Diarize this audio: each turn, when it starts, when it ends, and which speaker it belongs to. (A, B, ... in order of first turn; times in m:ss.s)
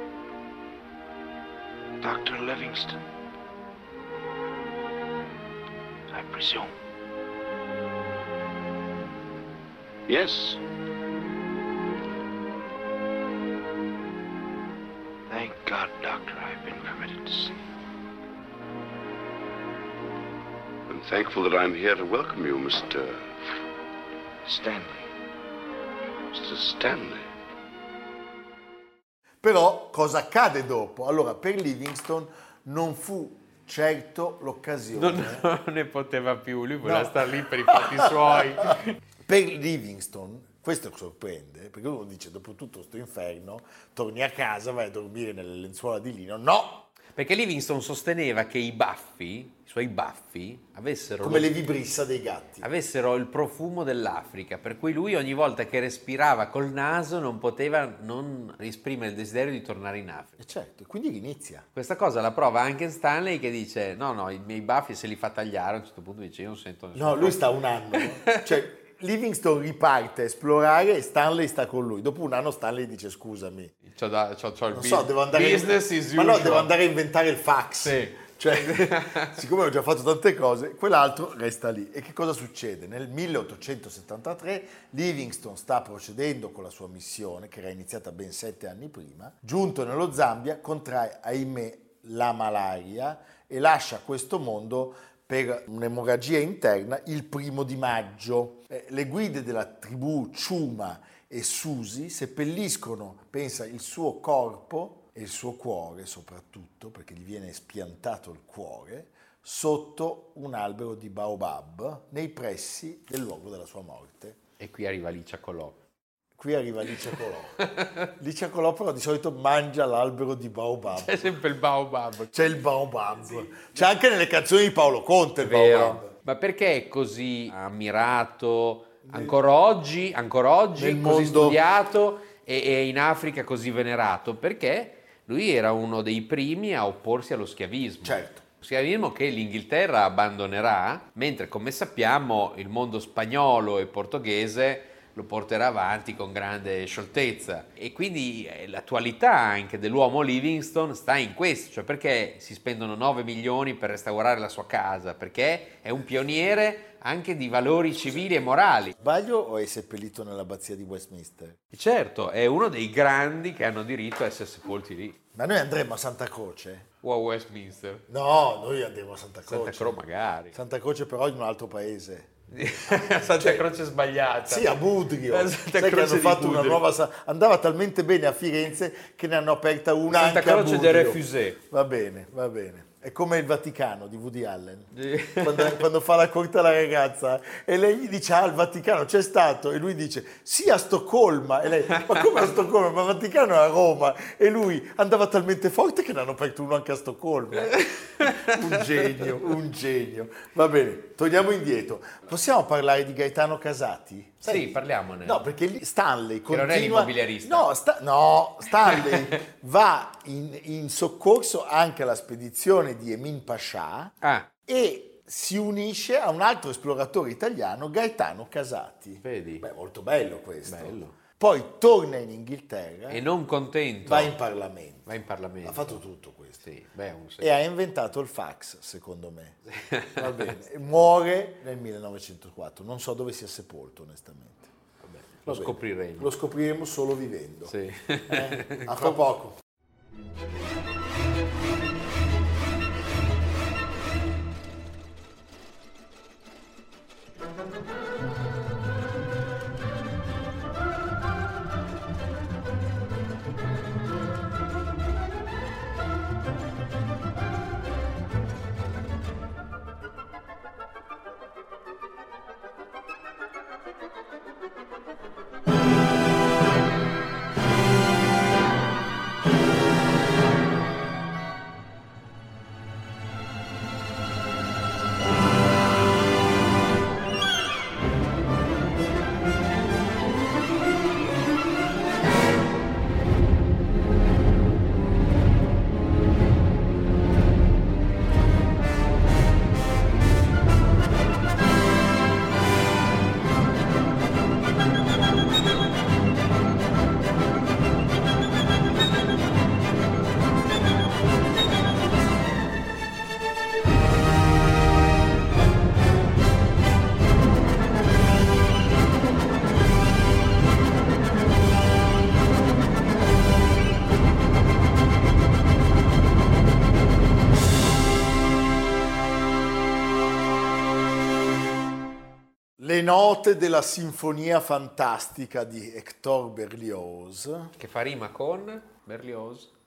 0:02.0-0:03.0 A
0:06.1-0:06.7 A
0:10.1-0:10.6 A
0:15.3-0:17.5 A
0:20.9-0:23.3 B
0:24.4-0:25.1 A
0:26.3-0:27.2 B
0:29.4-0:35.5 C
0:34.9-0:39.0 D
0:36.8-0:46.9 C
0:47.1-0:51.5 D
0:51.2-0:52.7 C
0:52.6-1:00.4 D
1:00.4-1:01.6 C
1:01.7-1:08.6 D
1:06.9-1:13.7 C
1:13.8-1:16.7 D
1:14.7-1:54.4 C
1:17.8-1:19.4 D
1:54.6-1:55.8 D
1:56.4-1:57.6 C
1:57.6-1:58.1 D
1:58.2-2:01.3 C
2:00.9-2:02.5 D
2:02.3-2:06.1 C
2:05.4-2:38.9 D
2:09.1-2:09.4 C
2:10.7-2:11.6 C
2:18.0-2:18.4 C
2:38.9-2:41.6 C
2:41.7-2:45.2 D
2:45.3-2:46.8 C
2:47.0-2:48.0 D
2:48.1-2:50.0 C
2:49.5-2:50.5 D
2:50.5-2:52.3 C
2:52.5-2:56.8 D
2:52.8-2:53.7 C
2:54.4-3:34.1 C
3:00.1-3:01.6 D
3:04.9-3:05.8 D
3:11.9-3:12.3 D
3:17.7-3:19.3 D
3:24.4-3:25.4 D
3:26.5-3:27.7 D
3:28.8-3:29.4 D
3:34.2-3:34.5 D
3:34.7-3:43.2 C
3:39.2-3:39.6 D
3:40.6-3:41.2 D
3:43.1-3:44.3 D
3:44.0-3:45.1 C
3:45.0-3:46.0 D
3:45.6-3:46.6 C
3:46.6-3:47.5 D
3:47.4-3:49.6 C
3:49.7-3:50.6 D
3:50.2-3:57.7 C
3:55.4-3:56.3 D
3:57.7-3:59.2 D
3:58.3-3:59.6 C
5:22.8-5:27.7 C
5:27.8-5:29.7 D